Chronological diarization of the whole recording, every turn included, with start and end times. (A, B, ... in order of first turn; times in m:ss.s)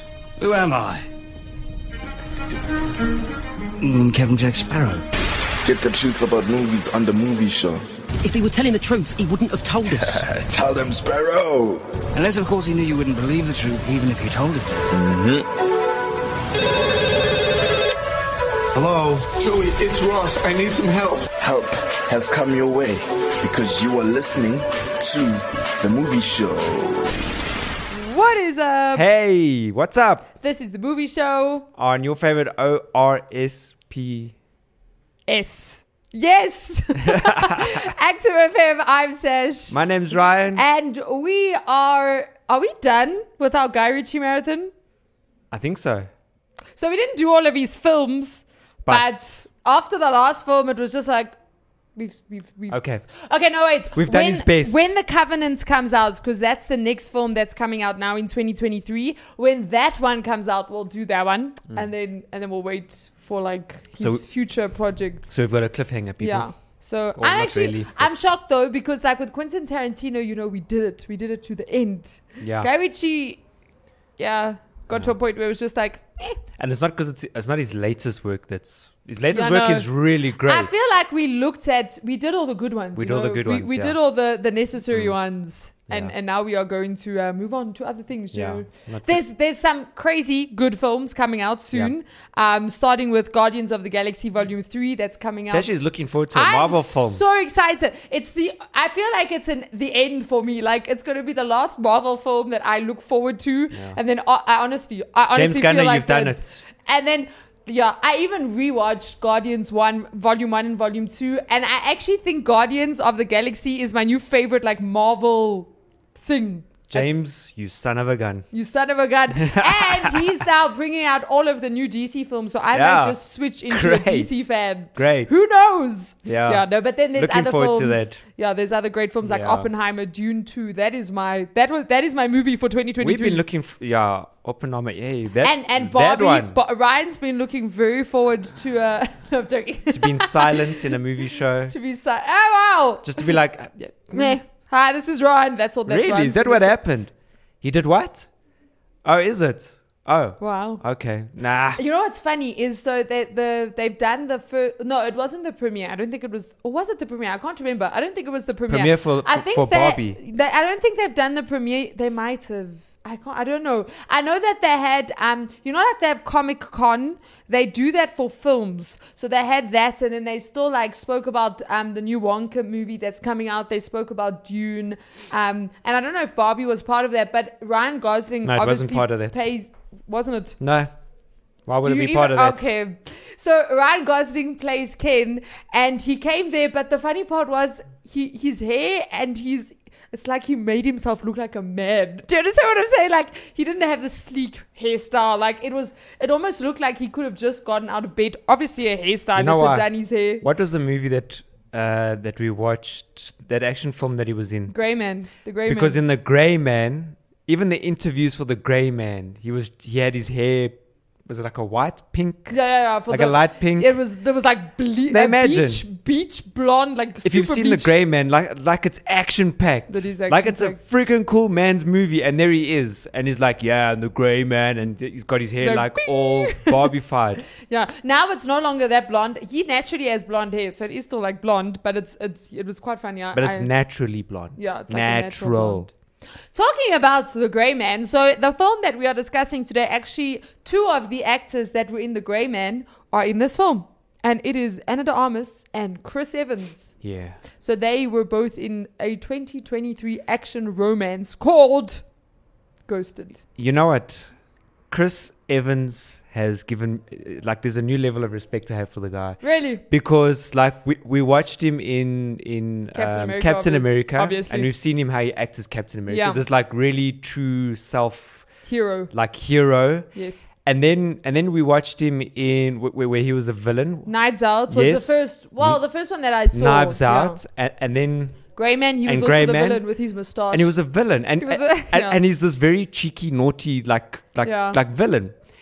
0:00.4-0:01.0 A
0:03.8-0:05.0 A
0:05.6-0:07.8 B
0:08.2-0:10.2 C
0:09.9-0:11.9 B
0:12.1-0:14.9 A
0:14.9-0:15.5 B
0:18.7-0:21.3 D
0:21.4-0:27.2 B
0:27.9-0:29.0 E
0:28.9-0:30.3 F
0:30.4-0:31.7 E
0:31.8-0:34.3 F
0:35.3-0:39.8 E
0:37.0-0:37.8 F
0:39.7-0:40.6 F
0:40.5-0:44.7 E
0:45.5-0:46.1 F
0:46.8-0:51.3 E
0:52.0-1:05.3 E
0:52.7-0:53.0 F
0:53.9-0:54.9 F
1:04.0-1:04.3 F
1:05.3-1:06.5 F
1:06.2-1:13.4 E
1:07.2-1:08.1 F
1:12.4-1:12.7 F
1:14.2-1:16.4 E
1:16.6-1:20.9 F
1:19.3-1:35.8 E
1:22.9-1:24.0 F
1:24.9-1:25.2 F
1:28.3-1:29.2 F
1:35.5-1:37.2 F
1:36.3-1:57.1 E
1:43.7-1:44.0 F
1:45.3-1:46.6 F
1:56.9-1:58.4 F
1:58.5-2:13.4 E
1:59.3-2:00.4 F
2:02.7-2:05.3 F
2:06.2-2:08.2 F
2:09.2-2:09.7 F
2:13.0-2:16.6 F
2:15.4-2:20.8 E
2:19.9-2:21.7 F
2:21.7-2:23.3 E
2:23.0-2:24.4 F
2:24.1-2:26.7 E
2:25.9-2:27.1 F
2:27.6-2:28.3 F
2:29.0-2:31.8 F
2:30.4-2:30.8 E
2:31.8-3:00.6 E
2:38.7-2:40.2 F
2:58.4-2:59.4 F
3:00.6-3:00.9 F
3:01.6-3:02.6 F
3:01.8-3:20.4 E
3:19.4-3:19.9 F
3:20.4-3:24.8 F
3:24.7-3:26.0 E
3:25.6-3:34.0 F
3:32.5-3:38.0 E
3:35.1-3:35.8 F
3:37.2-3:47.4 F
3:39.9-3:40.8 E
3:45.6-3:46.9 E
3:47.6-3:53.7 E
3:53.3-3:55.9 F
3:54.6-3:55.9 E
3:56.5-4:06.9 E
4:07.0-4:07.4 F
4:07.6-4:12.0 E
4:12.9-4:13.4 E
4:13.6-4:14.3 F
4:14.9-4:28.5 F
4:19.4-4:19.8 E
4:22.9-4:24.7 E
4:26.1-4:26.4 E
4:28.6-4:29.1 E
4:29.1-4:30.1 F
4:30.1-4:30.4 E
4:30.6-4:34.1 F
4:34.0-4:37.4 E
4:34.7-4:35.8 F
4:36.5-4:38.4 F
4:38.6-4:40.7 E
4:39.0-4:39.8 F
4:40.5-4:45.3 F
4:41.4-4:42.2 E
4:44.4-4:44.8 E